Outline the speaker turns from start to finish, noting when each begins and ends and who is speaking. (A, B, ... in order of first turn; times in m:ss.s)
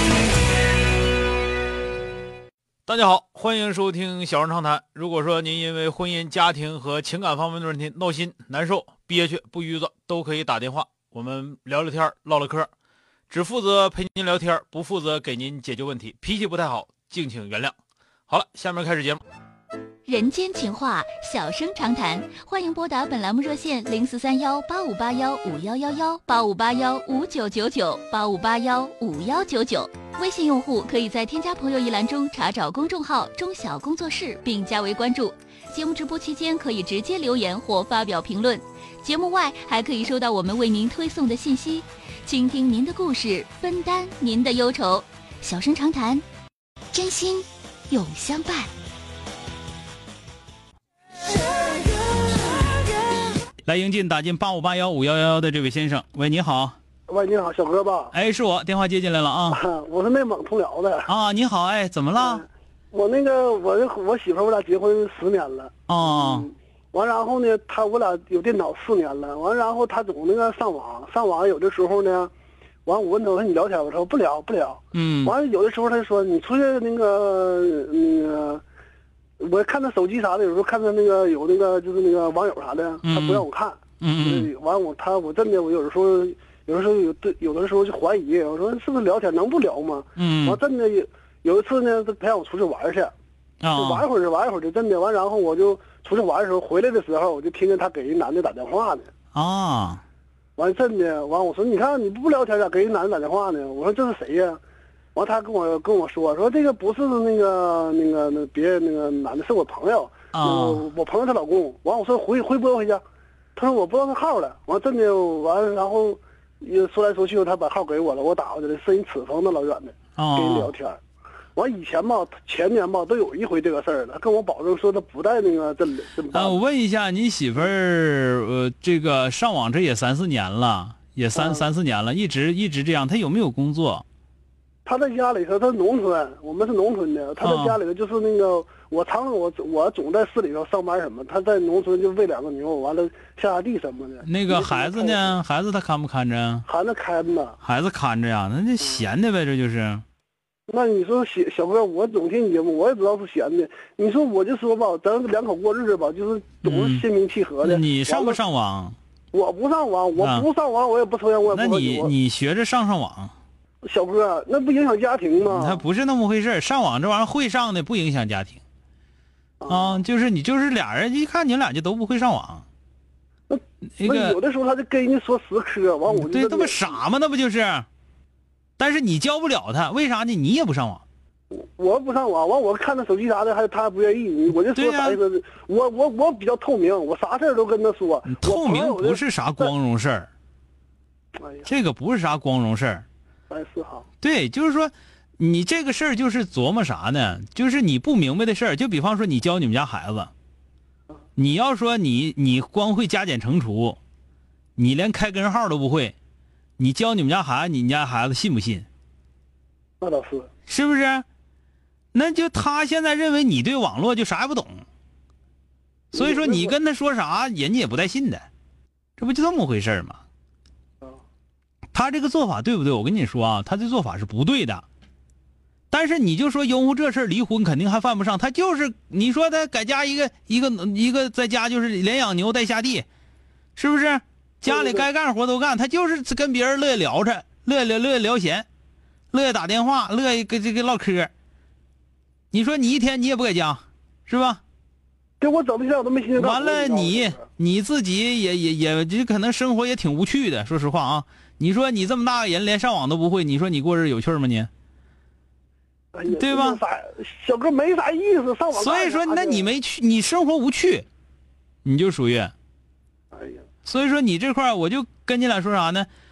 0:02.9-0:12.7 A
0:13.3-0:17.8 A
0:18.3-0:19.2 A
0:20.0-0:46.2 B
0:46.9-0:48.7 B
0:53.6-0:56.8 A
0:57.1-0:58.1 C
0:58.1-0:59.6 A
0:59.6-1:01.1 C
1:01.1-1:02.4 A
1:02.2-1:12.3 C
1:05.9-1:06.5 A
1:12.9-1:18.6 C
1:14.9-1:15.3 A
1:19.4-1:33.1 C
1:23.0-1:23.4 A
1:24.0-1:24.5 A
1:30.2-1:30.6 A
1:33.6-1:34.0 A
1:33.8-1:39.1 C
1:39.3-1:40.0 A
1:40.6-1:44.6 C
1:45.2-1:53.0 C
1:50.3-1:50.9 A
1:53.6-2:01.0 C
2:00.2-2:00.7 A
2:01.6-2:06.6 C
2:06.3-2:14.0 A
2:11.3-2:11.6 C
2:14.8-2:25.3 C
2:17.4-2:17.8 A
2:24.2-2:26.7 A
2:26.7-2:27.5 C
2:27.6-2:30.0 A
2:30.7-2:38.4 C
2:36.6-2:37.1 A
2:37.6-2:39.0 A
2:39.3-2:42.1 C
2:40.2-2:40.5 A
2:41.5-2:43.3 A
2:43.8-2:45.8 C
2:45.4-2:48.6 A
2:49.6-2:49.9 C
2:49.7-2:52.6 A
2:53.5-2:56.9 C
2:54.0-2:54.4 A
2:56.1-2:57.8 A
2:58.8-3:01.0 A
3:01.5-3:09.7 C
3:04.7-3:05.2 A
3:08.2-3:10.3 A
3:11.6-3:13.0 A
3:13.5-3:14.0 C
3:14.2-3:20.3 A
3:21.4-3:24.0 A
3:24.8-3:26.1 A
3:26.8-3:28.8 A
3:30.0-3:30.5 C
3:30.7-3:31.2 A
3:32.1-3:34.8 A
3:36.1-3:38.5 A
3:36.2-3:36.8 C
3:39.2-3:40.2 A
3:41.9-3:44.8 A
3:45.9-3:53.1 A
3:53.8-3:58.7 A
3:59.3-4:01.3 A
4:02.5-4:04.6 A
4:05.4-4:07.4 C
4:06.4-4:14.7 A
4:16.1-4:19.6 C
4:16.3-4:16.8 A
4:18.7-4:21.1 A
4:21.8-4:22.5 A
4:23.3-4:23.6 C
4:23.8-4:26.1 A